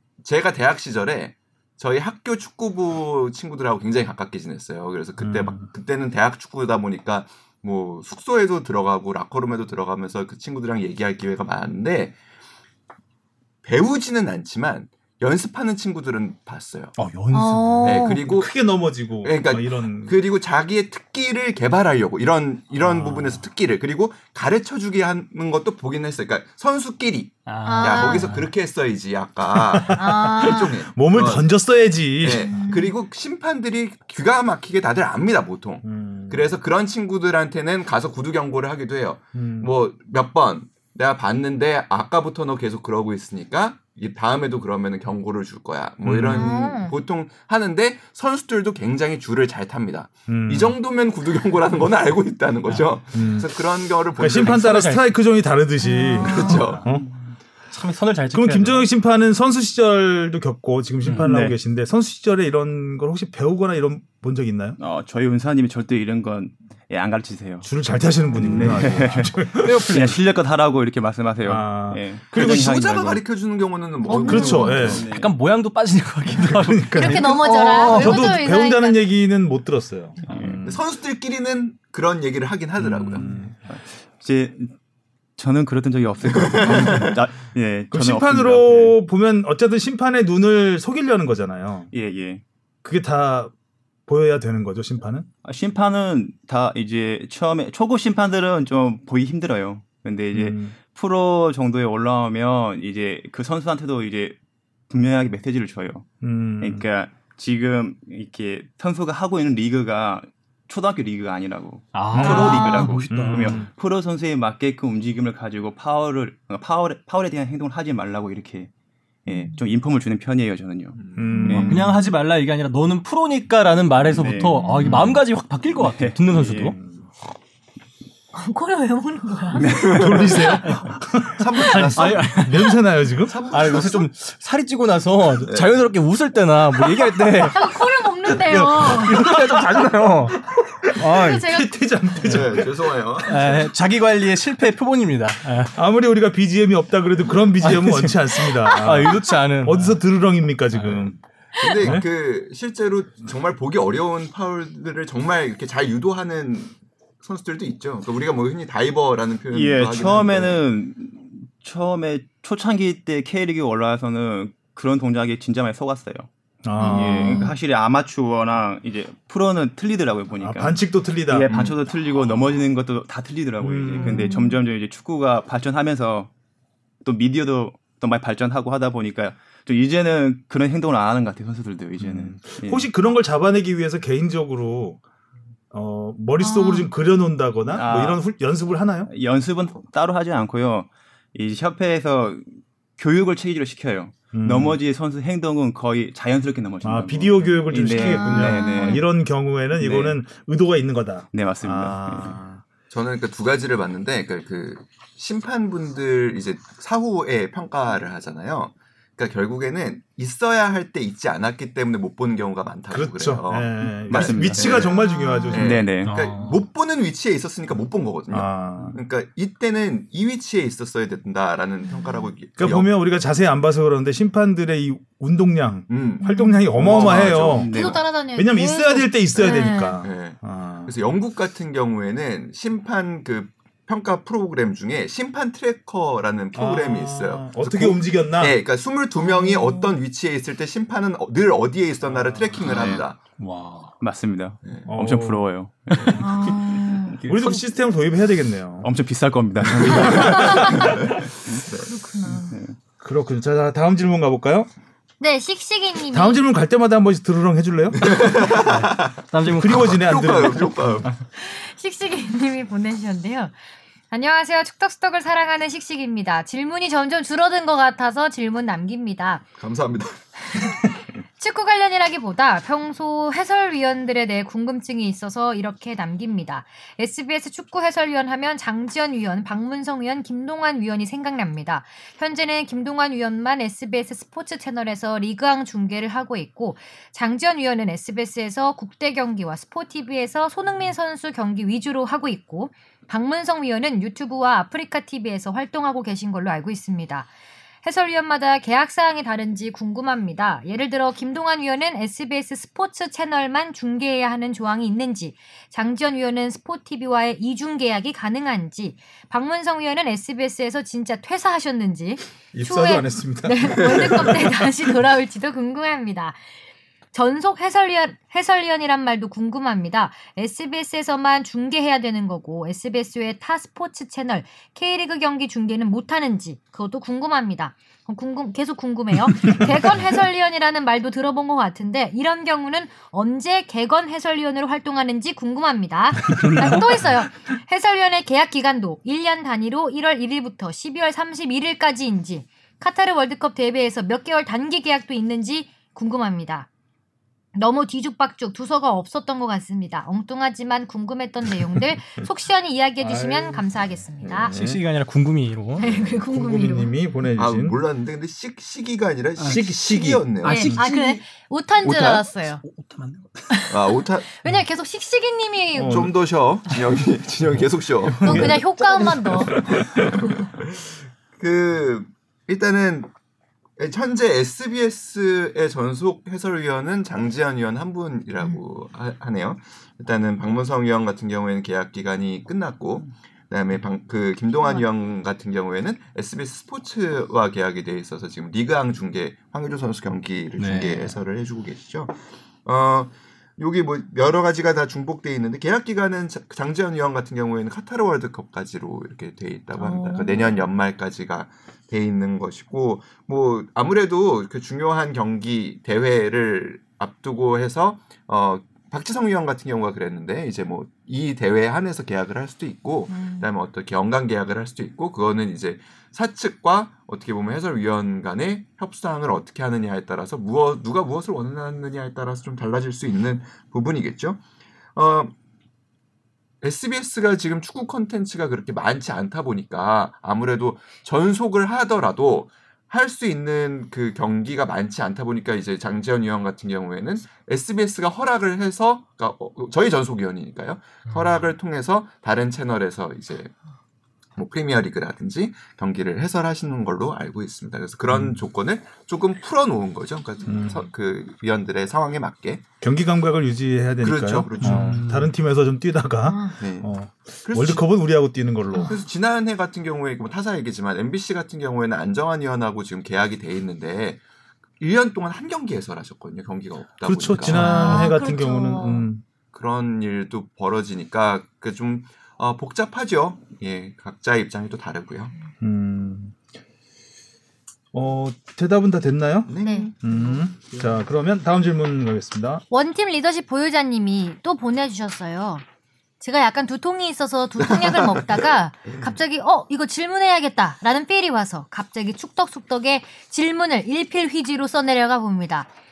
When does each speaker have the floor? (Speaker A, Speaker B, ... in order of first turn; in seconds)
Speaker A: 0.2-12.2, 13.6-16.9, 17.8-18.5, 19.2-31.4, 32.2-54.9, 56.1-56.9, 72.3-75.1, 80.6-83.3, 86.4-87.1, 120.9-121.3, 129.8-130.4, 131.3-132.4, 133.2-134.1, 135.4-135.8, 142.2-143.7, 151.6-160.6, 171.5-171.8, 202.9-215.0, 215.5-222.9, 225.9-227.8, 229.4-243.2, 244.6-244.9, 258.0-259.1, 259.7-261.1, 269.6-270.2, 357.4-361.2, 363.7-364.3, 365.9-373.1, 373.8-424.4, 424.9-425.3, 426.6-443.5, 444.4-452.6, 454.0-455.0, 456.6-456.9, 457.4-457.9, 458.8-464.2, 464.8-468.2, 469.5-475.3, 479.5-480.4
Speaker B: 5.2-5.7, 17.6-20.2, 22.8-23.2, 29.5-32.6, 35.8-36.6, 39.3-39.7, 46.0-46.5, 50.3-50.8, 53.1-53.5, 54.2-57.1, 58.3-64.8, 67.6-69.9, 71.4-72.7, 74.1-75.0, 76.5-80.8, 82.8-83.5, 87.9-91.9, 92.8-93.5, 94.1-95.3, 100.3-100.7, 106.2-106.8, 112.1-113.7, 121.2-122.0, 124.8-125.2, 126.6-127.0, 129.9-131.4, 132.3-133.3, 138.6-139.6, 140.4-143.5, 145.7-151.2, 166.6-167.5, 170.4-171.5, 173.6-174.3, 182.0-185.0, 185.7-189.1, 194.3-194.8, 196.8-202.6, 212.9-216.6, 218.3-219.0, 222.6-227.7, 228.3-230.9, 236.5-238.6, 242.1-242.8, 244.9-246.5, 247.2-248.9, 249.7-251.0, 253.0-254.7, 256.1-258.5, 259.5-261.1, 312.5-314.7, 336.4-336.8, 353.0-354.8, 355.8-357.8, 359.4-360.9, 365.7-366.1, 368.2-368.6, 448.1-448.4, 450.5-450.8, 452.8-459.0, 467.1-469.2, 475.6-476.4, 477.9-479.5, 480.0-482.6
Speaker C: 17.0-18.0, 22.9-23.3, 27.4-28.4, 54.4-55.0, 56.5-57.0, 57.7-58.9, 61.0-61.3, 69.8-70.1, 75.0-78.2, 111.9-113.6, 121.5-126.8, 130.6-131.0, 131.6-132.8, 133.5-137.7, 138.3-140.4, 141.0-141.5, 143.2-145.7, 147.6-150.0, 150.7-151.1, 216.0-216.6, 243.4-243.9, 258.6-260.2, 336.3-336.9, 354.5-355.9, 359.4-359.9, 361.9-363.5, 390.6-391.1, 454.6-455.2
Speaker D: 17.3-18.2, 27.6-28.3, 29.9-30.8, 32.3-32.9, 46.2-46.9, 55.8-56.6, 74.1-74.9, 76.9-79.0, 112.2-112.9, 119.3-119.6, 121.3-122.1, 124.5-125.0, 128.3-129.7, 137.5-139.2, 141.1-141.7, 166.8-167.6, 174.0-174.6, 186.4-186.9, 198.0-199.0, 214.7-215.8, 221.9-222.3, 226.2-226.6, 227.7-230.0, 239.2-240.0, 246.2-247.2, 250.1-250.8, 251.8-252.6, 255.2-256.4, 261.4-263.5, 264.1-269.4, 270.5-297.3, 297.8-316.5, 317.1-346.7, 347.5-354.5, 355.8-356.9, 360.4-362.6, 363.5-366.1, 368.2-369.6, 399.8-400.6, 413.1-413.5, 456.2-456.5, 467.4-469.1, 479.6-479.9, 482.7-485.6, 486.2-495.7
Speaker E: 61.1-61.5, 64.8-67.7, 68.3-73.2, 74.6-75.3, 80.2-80.6, 83.7-84.7, 85.4-89.0, 91.9-92.4, 95.4-104.3, 104.9-106.1, 106.6-118.7, 119.2-121.8, 124.1-124.6, 125.8-126.8, 129.5-130.6, 159.5-176.3, 177.0-182.9, 187.7-188.2, 189.1-199.1, 199.8-200.2, 201.3-202.4, 214.1-214.9, 215.5-216.1, 226.9-228.0, 242.6-243.0, 244.0-247.6, 248.8-251.6, 252.3-252.8